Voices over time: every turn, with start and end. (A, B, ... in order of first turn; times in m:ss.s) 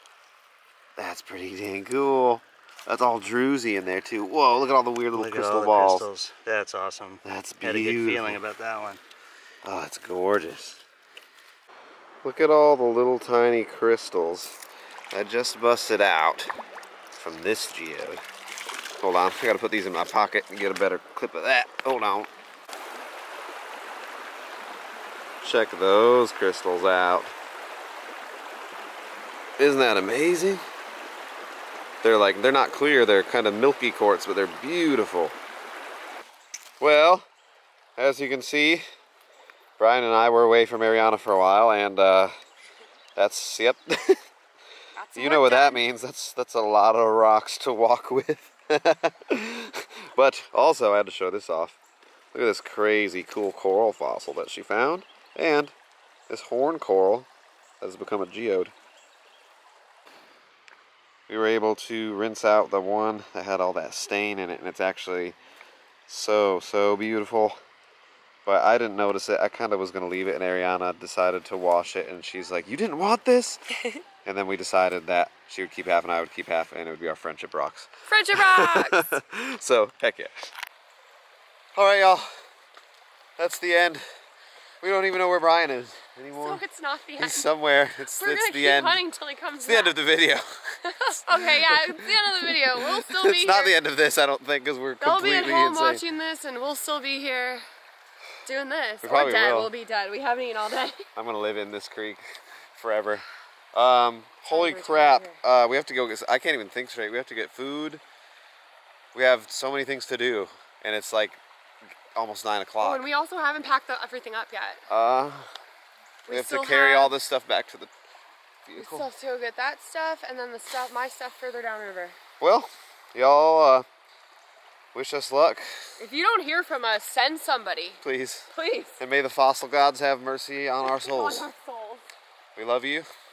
0:01.0-0:06.0 A
0:05.1-0:09.0 B
0:07.2-0:08.4 A
0:09.6-0:10.8 A
0:12.2-0:14.6 A
0:15.1-0:16.5 A
0:17.1-0:18.2 A
0:19.0-0:22.3 A
0:25.4-0:27.3 A
0:29.6-0:30.6 A
0:32.0-0:35.3 A
0:36.8-0:37.3 A
0:38.0-0:38.8 A
0:39.8-0:42.3 A
0:43.2-0:44.2 A
0:45.0-0:45.8 C
0:45.2-0:51.8 A
0:52.3-0:55.7 A
0:56.3-0:57.3 A
0:57.8-0:58.7 A
1:01.3-1:05.4 A
1:06.1-1:07.6 A
1:08.4-1:13.6 A
1:14.2-1:20.5 A
1:18.1-1:19.0 C
1:21.7-1:22.3 A
1:23.4-1:24.0 A
1:24.8-1:26.6 A
1:26.3-1:27.5 C
1:27.2-1:29.0 A
1:28.1-1:30.0 C
1:29.6-1:30.6 A
1:30.8-1:33.7 C
1:31.2-1:36.0 A
1:35.0-1:37.6 C
1:38.4-1:41.1 C
1:39.0-1:39.7 A
1:41.2-1:48.0 A
1:44.5-1:45.4 C
1:49.1-1:51.4 A
1:51.9-1:53.0 A
1:52.8-1:54.8 C
1:54.9-1:55.5 A
1:56.3-1:57.1 C
1:56.3-1:57.9 A
1:58.6-1:59.1 A
1:58.8-2:02.2 C
2:02.4-2:03.8 A
2:04.9-2:05.9 A
2:06.0-2:08.0 C
2:08.0-2:11.5 A
2:08.5-2:09.0 C
2:10.8-2:12.0 C
2:12.6-2:13.1 A